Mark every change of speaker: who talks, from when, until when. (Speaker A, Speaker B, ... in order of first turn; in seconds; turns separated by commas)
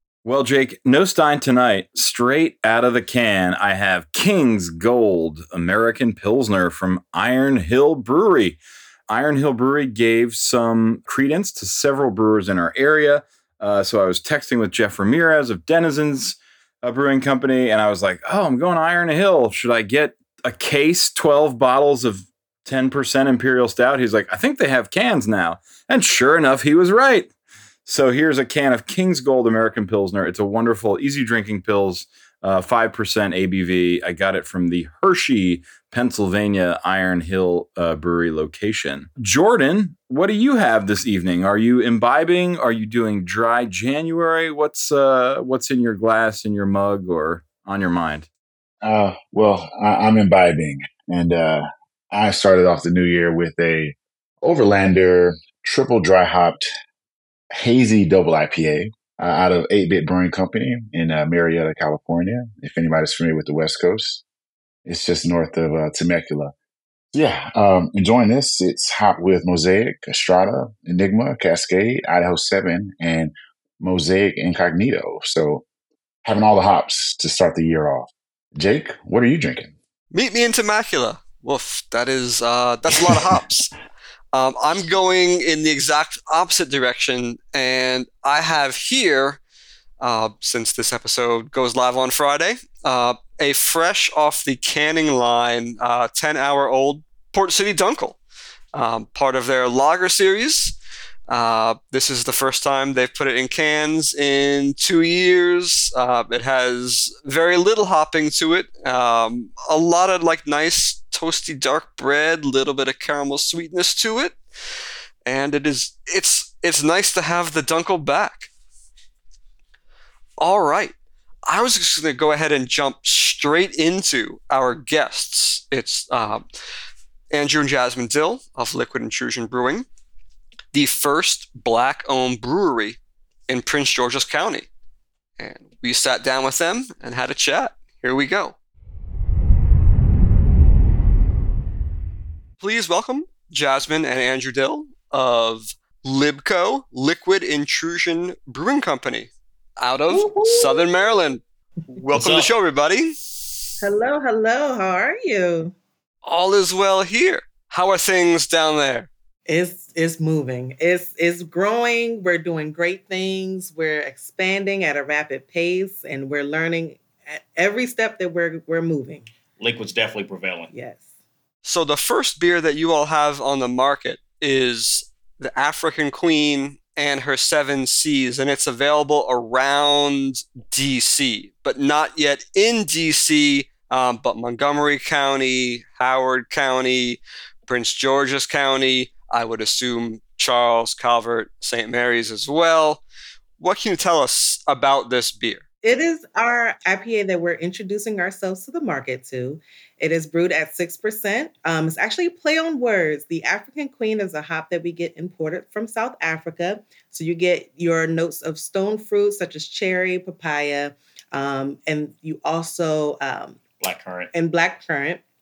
Speaker A: 0.2-27.3, Speaker A: 27.9-48.3, Speaker B: 48.8-56.6, Speaker B: 57.5-64.2, Speaker B: 64.9-66.5, Speaker B: 67.1-75.6, Speaker B: 76.2-79.7, Speaker C: 80.1-83.7, Speaker C: 84.3-89.4, Speaker C: 90.0-98.2, Speaker C: 98.7-100.8, Speaker C: 101.3-114.4, Speaker C: 115.3-118.5, Speaker C: 120.4-121.0, Speaker C: 121.5-126.4, Speaker C: 127.3-129.9, Speaker C: 130.7-134.7, Speaker C: 135.4-138.6, Speaker C: 142.6-151.4, Speaker D: 150.1-150.8, Speaker C: 151.9-153.2, Speaker E: 152.1-152.5, Speaker D: 153.8-155.7, Speaker C: 156.2-159.1, Speaker D: 159.5-169.3, Speaker E: 169.6-170.7, Speaker D: 170.7-171.0, Speaker C: 171.7-193.0, Speaker C: 193.6-195.6, Speaker D: 195.8-213.6, Speaker E: 213.8-214.3, Speaker D: 214.3-215.2